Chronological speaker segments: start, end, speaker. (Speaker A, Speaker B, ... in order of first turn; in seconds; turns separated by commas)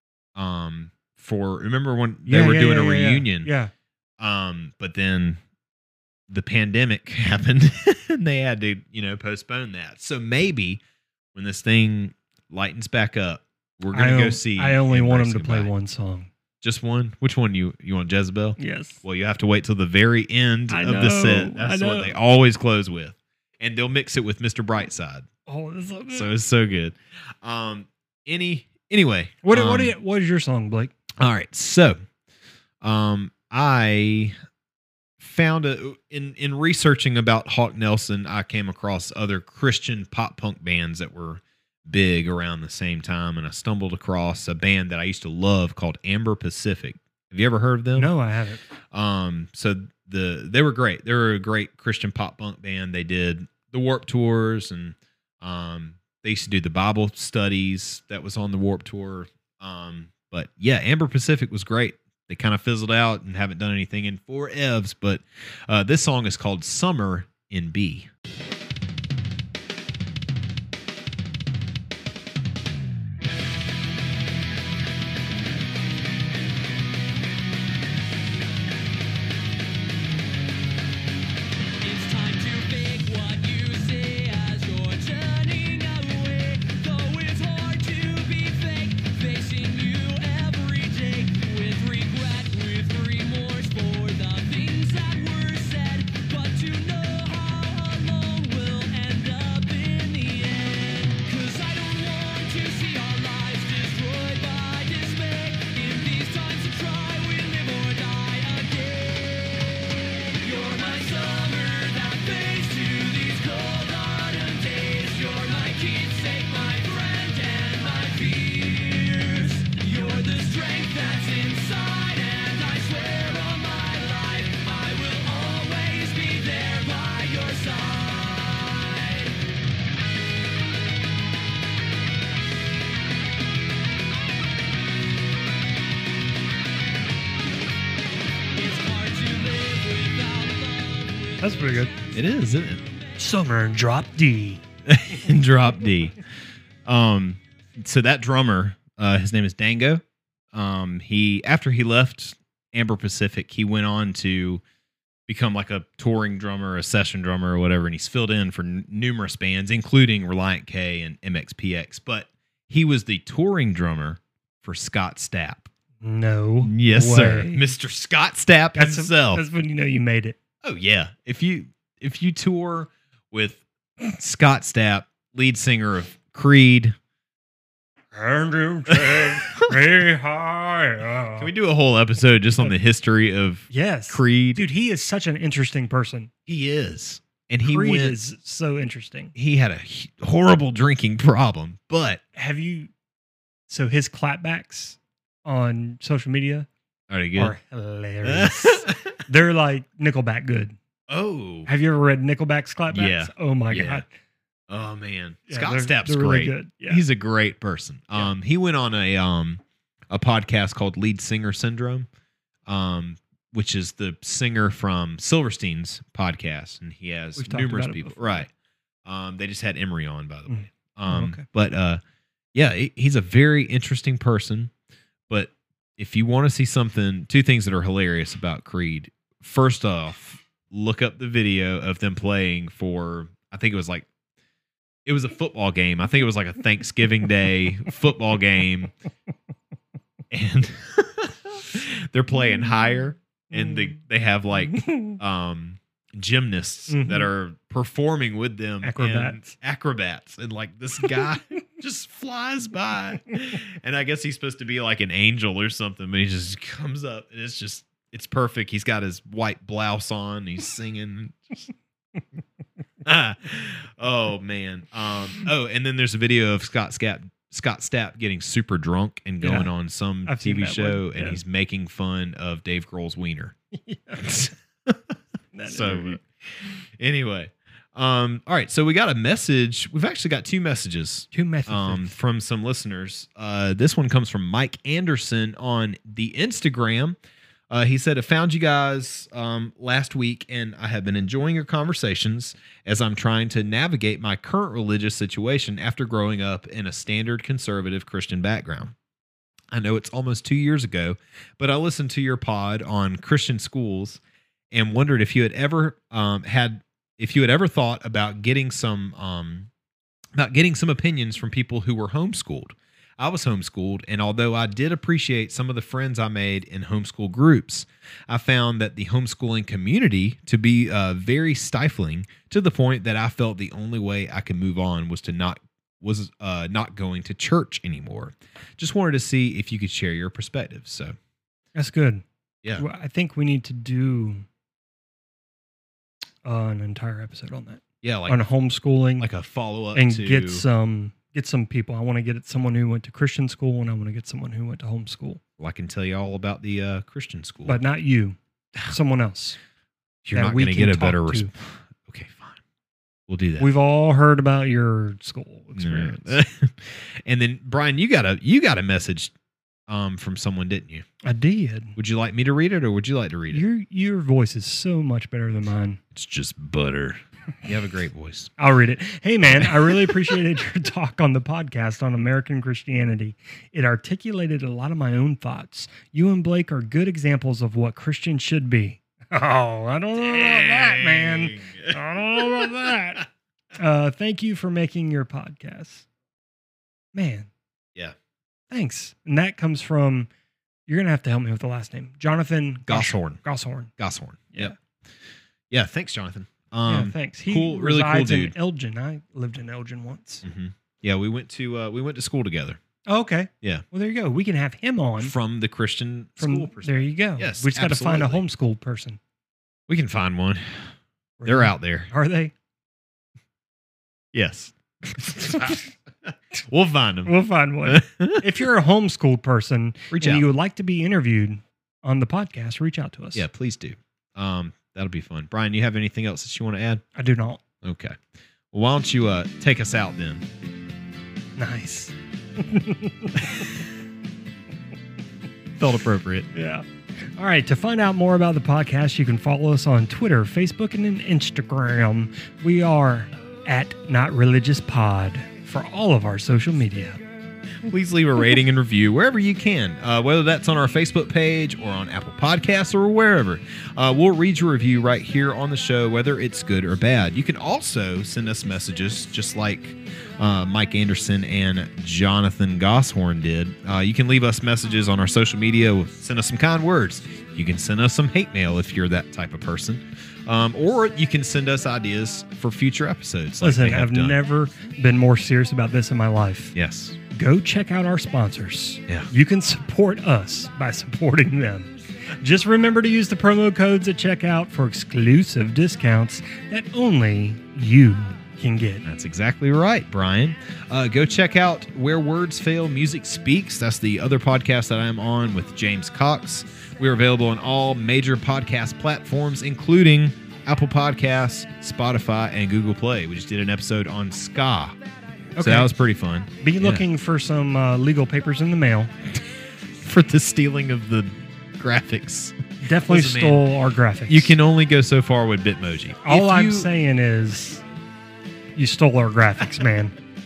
Speaker A: 0.4-3.5, Speaker B: 2.3-3.7, Speaker A: 4.2-5.4, Speaker A: 6.3-10.8, Speaker A: 11.3-15.7, Speaker B: 13.9-16.3, Speaker A: 16.6-25.3, Speaker B: 18.6-19.0, Speaker B: 20.7-22.1, Speaker B: 25.5-26.3, Speaker A: 26.1-30.0, Speaker B: 29.4-30.9, Speaker A: 31.2-32.0, Speaker A: 32.8-34.4, Speaker A: 35.2-48.1, Speaker B: 48.0-48.6, Speaker A: 48.9-68.1, Speaker C: 81.8-109.6, Speaker C: 110.4-129.3, Speaker C: 138.5-142.2, Speaker B: 141.4-141.9, Speaker A: 142.1-142.8, Speaker B: 143.2-144.6, Speaker A: 144.9-146.2, Speaker A: 146.8-154.6, Speaker A: 155.3-165.7, Speaker B: 166.0-167.7, Speaker A: 166.6-169.4, Speaker B: 168.8-170.4, Speaker A: 170.6-177.0, Speaker B: 178.1-181.5, Speaker A: 178.9-179.8, Speaker A: 181.4-184.6, Speaker B: 183.7-186.3, Speaker A: 186.5-188.2, Speaker B: 187.6-189.3, Speaker A: 189.3-192.2, Speaker B: 192.4-192.9, Speaker B: 193.7-196.7, Speaker A: 197.1-197.6, Speaker B: 197.3-200.8, Speaker A: 198.2-199.1, Speaker A: 201.1-201.7, Speaker B: 201.7-204.1, Speaker A: 202.9-204.0, Speaker A: 204.7-212.1, Speaker B: 205.5-207.0, Speaker A: 212.7-218.5, Speaker B: 217.4-218.4, Speaker A: 219.1-222.0, Speaker B: 220.5-221.4, Speaker A: 222.5-224.7, Speaker A: 225.3-234.1, Speaker A: 235.1-238.9, Speaker A: 240.3-261.7, Speaker B: 244.9-245.1, Speaker B: 246.9-247.3, Speaker B: 248.8-249.5, Speaker A: 263.0-273.5, Speaker B: 269.4-269.7, Speaker B: 270.3-271.4, Speaker B: 273.7-274.3, Speaker A: 274.2-275.1, Speaker B: 275.5-276.2, Speaker A: 275.7-276.2, Speaker A: 277.0-287.2, Speaker B: 281.3-282.1, Speaker A: 287.7-298.9, Speaker A: 299.7-309.7, Speaker A: 310.4-331.2, Speaker B: 331.8-332.2, Speaker B: 332.8-334.5, Speaker B: 336.4-339.3, Speaker A: 338.0-338.4, Speaker A: 339.2-340.6, Speaker B: 339.9-345.4, Speaker A: 345.6-347.8, Speaker B: 347.7-349.6, Speaker A: 350.2-352.6, Speaker B: 350.3-351.5, Speaker A: 353.3-353.7, Speaker B: 353.6-356.4, Speaker A: 355.8-359.3, Speaker A: 359.9-361.1, Speaker B: 361.2-362.0, Speaker A: 362.0-363.6, Speaker B: 363.5-366.0, Speaker A: 366.1-368.5, Speaker B: 368.6-386.1, Speaker A: 369.5-370.3, Speaker A: 380.1-383.2, Speaker B: 387.1-387.5, Speaker B: 388.7-390.3, Speaker B: 390.9-393.9, Speaker A: 392.9-393.4, Speaker A: 394.0-394.8, Speaker A: 395.7-398.6, Speaker B: 396.9-400.4, Speaker A: 400.4-402.8, Speaker B: 403.1-405.4, Speaker A: 405.2-408.5, Speaker B: 406.4-409.2, Speaker A: 409.9-410.9, Speaker B: 411.4-412.5, Speaker A: 411.5-412.1, Speaker A: 414.3-418.5, Speaker B: 417.3-423.4, Speaker A: 420.1-420.5, Speaker A: 423.3-427.0, Speaker B: 427.2-427.6, Speaker A: 427.8-428.2, Speaker A: 428.7-430.4, Speaker B: 431.6-433.7, Speaker A: 435.8-436.5, Speaker B: 436.5-447.2, Speaker A: 447.8-474.4, Speaker B: 473.6-476.8, Speaker A: 476.8-477.2, Speaker B: 477.3-489.0, Speaker A: 489.0-505.0, Speaker B: 505.6-505.9, Speaker A: 505.6-507.1, Speaker B: 506.6-509.1, Speaker A: 510.0-513.6, Speaker B: 512.8-514.5, Speaker A: 514.3-516.9, Speaker B: 516.2-517.8, Speaker B: 518.8-520.1